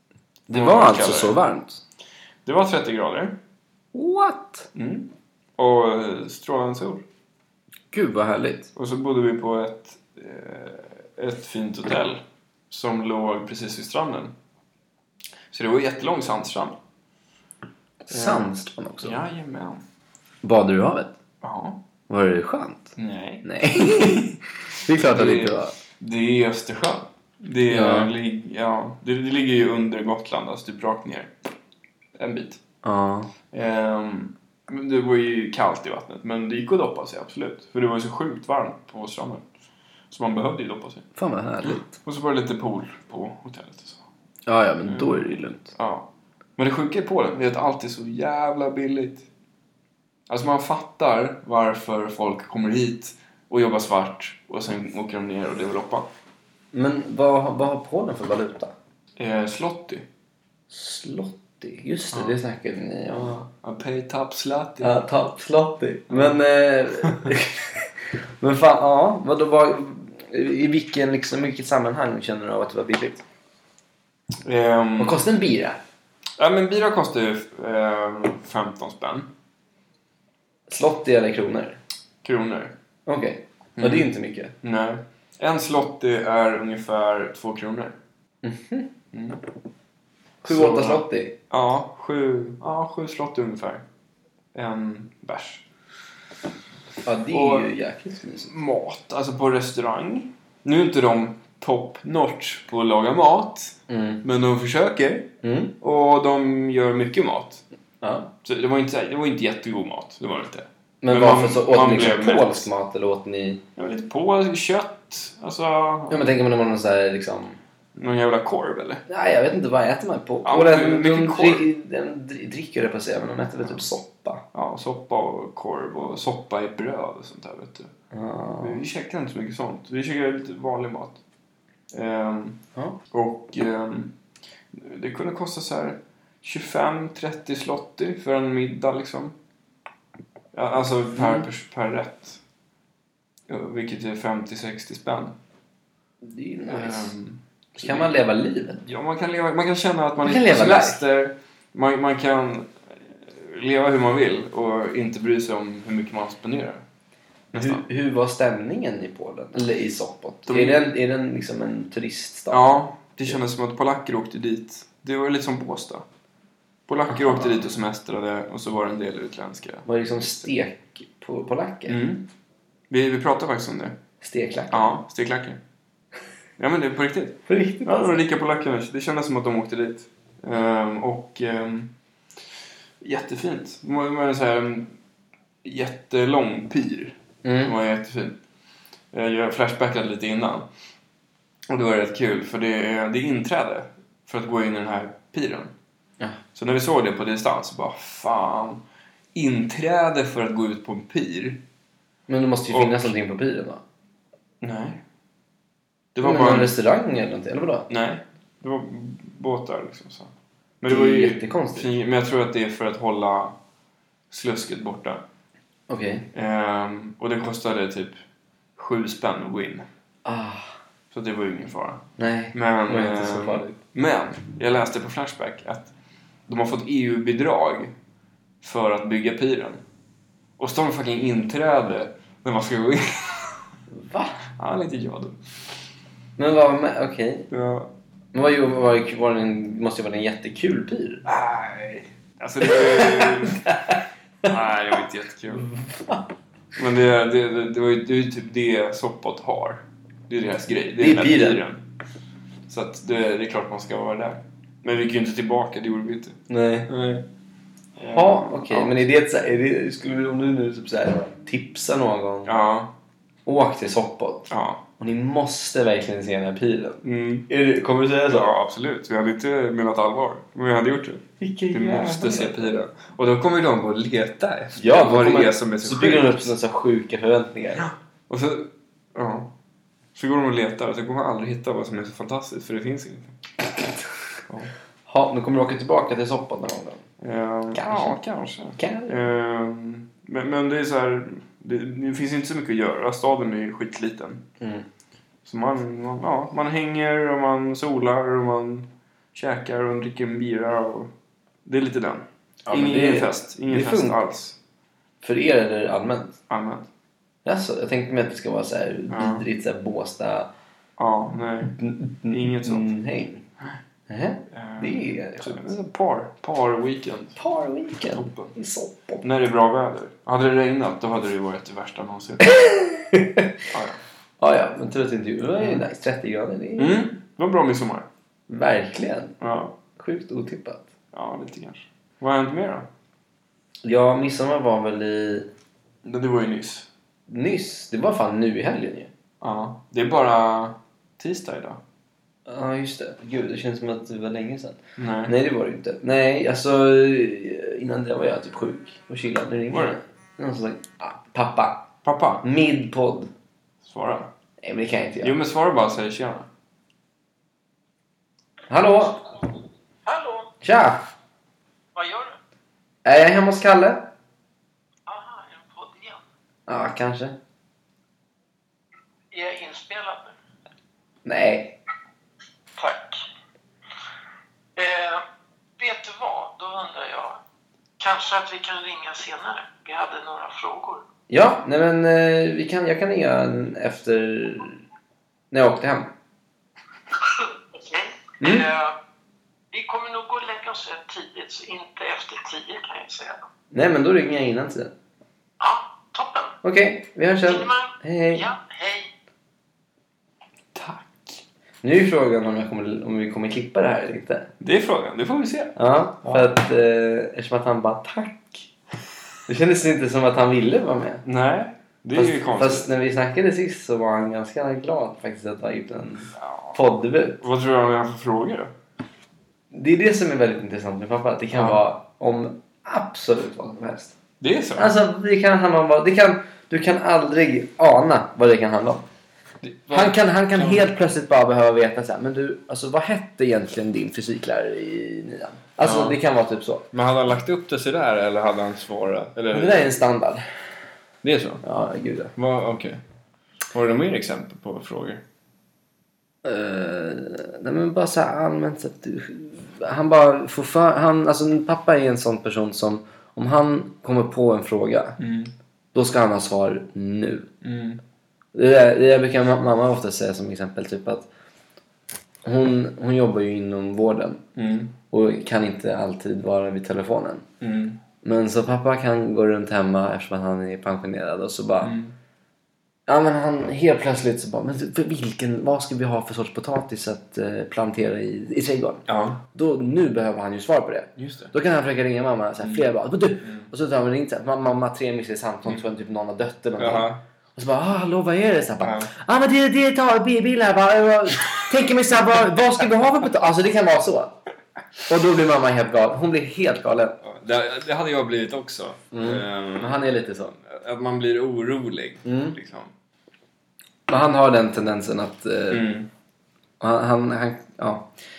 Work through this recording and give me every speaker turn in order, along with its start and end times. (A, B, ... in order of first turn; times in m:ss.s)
0:00.5-0:01.8 A
0:00.5-0:01.4 B
0:02.4-0:03.4 B
0:03.9-0:04.7 A
0:04.7-0:07.0 B
0:07.9-0:08.7 A
0:08.7-0:14.3 B
0:15.5-0:16.8 B
0:18.0-0:19.2 A
0:18.1-0:18.5 B
0:19.0-0:19.8 B
0:20.4-0:21.2 A
0:21.4-0:21.8 B
0:22.1-0:25.7 A
0:23.0-0:24.4 B
0:24.9-0:31.3 B
0:27.7-0:28.1 A
0:32.2-0:32.6 B
0:32.8-0:33.3 A
0:33.5-0:39.4 B
0:40.1-0:41.1 B
0:41.2-0:42.0 A
0:41.6-0:44.0 B
0:44.5-0:45.7 A
0:44.8-0:45.2 B
0:45.8-0:49.2 B
0:50.3-0:56.1 B
0:56.7-0:58.7 A
0:59.2-1:00.0 B
1:00.7-1:03.4 A
1:02.1-1:02.4 B
1:03.2-1:05.0 B
1:04.8-1:13.2 A
1:06.1-1:06.4 B
1:07.0-1:07.3 B
1:14.4-1:15.2 B
1:15.0-1:15.8 A
1:16.4-1:19.3 B
1:20.7-1:21.8 A
1:22.2-1:22.7 B
1:23.0-1:24.5 A
1:23.8-1:28.0 B
1:28.4-1:28.9 A
1:29.1-1:29.4 B
1:30.4-1:31.3 A
1:30.5-1:33.8 B
1:34.5-1:35.6 B
1:37.0-1:38.5 A
1:37.3-1:37.7 B
1:38.4-1:47.6 B
1:43.9-1:44.2 A
1:45.4-1:45.7 A
1:48.0-1:48.3 A
1:48.4-1:52.7 B
1:51.0-1:53.6 A
1:53.8-1:56.3 B
1:56.1-1:57.6 A
1:57.9-1:59.0 B
1:59.1-2:04.4 A
2:00.4-2:01.6 B
2:04.5-2:07.9 B
2:08.1-2:08.8 A
2:08.6-2:11.2 B
2:11.9-2:12.6 B
2:13.1-2:14.1 B
2:14.7-2:19.3 B
2:20.5-2:22.4 B
2:21.2-2:21.5 A
2:23.5-2:25.4 B
2:26.2-2:27.1 A
2:26.6-2:28.1 B
2:27.8-2:28.8 A
2:28.8-2:36.8 B
2:30.2-2:31.0 A
2:37.5-2:37.8 B
2:37.5-2:42.8 A
2:40.5-2:40.8 B
2:42.5-2:46.0 B
2:46.9-2:50.4 B
2:47.1-2:47.6 A
2:49.8-2:52.0 A
2:51.9-2:52.3 B
2:52.9-2:54.0 B
2:54.2-2:54.9 A
2:54.7-2:55.6 B
2:56.6-3:01.9 B
2:57.5-2:58.2 A
3:03.0-3:04.9 B
3:05.6-3:08.4 B
3:07.4-3:07.7 A
3:09.1-3:10.7 B
3:11.7-3:15.7 B
3:16.5-3:18.8 B
3:19.3-3:21.6 B
3:22.3-3:23.8 A
3:22.7-3:23.1 B
3:24.6-3:25.0 B
3:26.1-3:26.7 B
3:26.2-3:27.9 A
3:27.9-3:33.6 B
3:30.9-3:31.9 A
3:34.3-3:35.2 B
3:35.9-3:36.3 A
3:36.3-3:38.2 B
3:38.8-3:39.8 B
3:40.2-3:40.7 A
3:41.1-3:45.9 B
3:42.2-3:43.7 A
3:46.5-3:47.9 B
3:48.6-3:49.8 B
3:50.6-3:53.6 B
3:53.9-3:54.4 A
3:54.6-3:55.4 B
3:56.4-3:57.5 A
3:57.5-3:57.9 B
3:58.3-4:01.2 A
4:01.2-4:03.7 B
4:02.7-4:04.0 A
4:04.4-4:05.7 B
4:05.9-4:06.2 A
4:06.8-4:11.8 B
4:11.0-4:11.6 A
4:12.7-4:17.2 B
4:16.5-4:16.9 A
4:18.0-4:19.1 B
4:18.0-4:22.6 A
4:22.4-4:22.9 B
4:23.4-4:24.5 A
4:24.5-4:24.8 B
4:25.0-4:28.5 A
4:27.0-4:27.5 B
4:28.3-4:36.5 B
4:31.4-4:32.8 A
4:34.8-4:37.8 A
4:37.7-4:39.5 B
4:40.1-4:43.4 B
4:44.5-4:44.7 B
4:45.1-4:47.0 A
4:47.2-4:54.4 B
4:47.7-4:48.2 A
4:48.8-4:49.2 A
4:54.6-4:54.8 A
4:55.4-5:01.1 B
5:01.6-5:04.6 B
5:02.7-5:04.3 A
5:05.2-5:06.4 A
5:06.5-5:06.9 B
5:07.4-5:10.5 A
5:09.1-5:09.4 B
5:11.0-5:12.9 B
5:11.8-5:13.4 A
5:14.1-5:15.7 A
5:14.5-5:17.4 B
5:17.4-5:19.2 A
5:18.1-5:18.5 B
5:19.2-5:22.5 B
5:22.4-5:23.5 A
5:23.7-5:24.0 B
5:24.4-5:27.0 A
5:26.8-5:28.1 B
5:28.5-5:29.3 A
5:29.4-5:29.8 B
5:30.0-5:30.8 A
5:31.1-5:32.9 B
5:33.8-5:35.5 A
5:36.0-5:36.9 B
5:37.3-5:39.1 A
5:39.4-5:41.8 B
5:42.5-5:51.8 A
5:45.0-5:45.3 B
5:49.7-5:50.0 B
5:52.0-5:52.4 B
5:52.4-5:53.3 A
5:53.8-5:54.3 B
5:54.6-5:55.4 A
5:55.2-5:56.5 B
5:58.7-5:59.2 A
6:00.0-6:00.5 C
6:00.6-6:01.0 A
6:01.9-6:02.4 C
6:03.0-6:04.1 A
6:05.1-6:06.2 C
6:06.7-6:07.4 A
6:09.3-6:10.3 C
6:11.2-6:11.8 A
6:12.8-6:13.2 C
6:14.8-6:15.2 C
6:15.8-6:17.4 C
6:18.0-6:21.0 C
6:21.3-6:24.8 A
6:25.5-6:26.1 A
6:27.2-6:28.9 C
6:28.4-6:28.7 A
6:29.7-6:33.5 C
6:33.7-6:34.9 A
6:35.6-6:36.6 C
6:36.6-6:38.4 A
6:37.4-6:39.1 C
6:40.7-6:41.4 B
6:41.8-6:44.5 A
6:44.6-6:46.5 B
6:45.8-6:48.7 A
6:49.5-6:51.2 A
6:51.2-6:52.9 B
6:52.1-6:57.4 A
6:56.4-6:56.8 B
6:57.4-6:58.7 B
6:59.7-7:04.1 A
7:01.5-7:01.8 B
7:04.4-7:05.0 B
7:04.8-7:09.0 A
7:09.6-7:10.9 B
7:09.9-7:16.8 A
7:15.8-7:16.2 B
7:16.9-7:19.9 B
7:19.5-7:20.4 A
7:21.2-7:21.6 B
7:21.6-7:22.3 A
7:22.4-7:23.0 B
7:23.7-7:25.2 B
7:26.4-7:35.2 A
7:35.2-7:35.5 B
7:35.9-7:37.5 A
7:37.6-7:38.0 B
7:38.5-7:41.3 A
7:42.4-7:44.4 A
7:44.5-7:44.9 B
7:45.1-7:47.4 A
7:47.6-7:48.0 B
7:48.2-7:52.0 A
7:51.8-7:52.1 B
7:53.1-8:14.3 A
7:59.1-7:59.4 B
8:01.2-8:01.5 B
8:02.6-8:02.9 B
8:03.4-8:03.7 B
8:06.8-8:07.2 B
8:08.8-8:09.1 B
8:15.0-8:17.2 A
8:17.2-8:20.1 B
8:19.1-8:20.5 A
8:20.6-8:22.9 B
8:22.2-8:22.6 A
8:24.1-8:25.8 A
8:25.7-8:26.1 B
8:26.8-8:28.1 A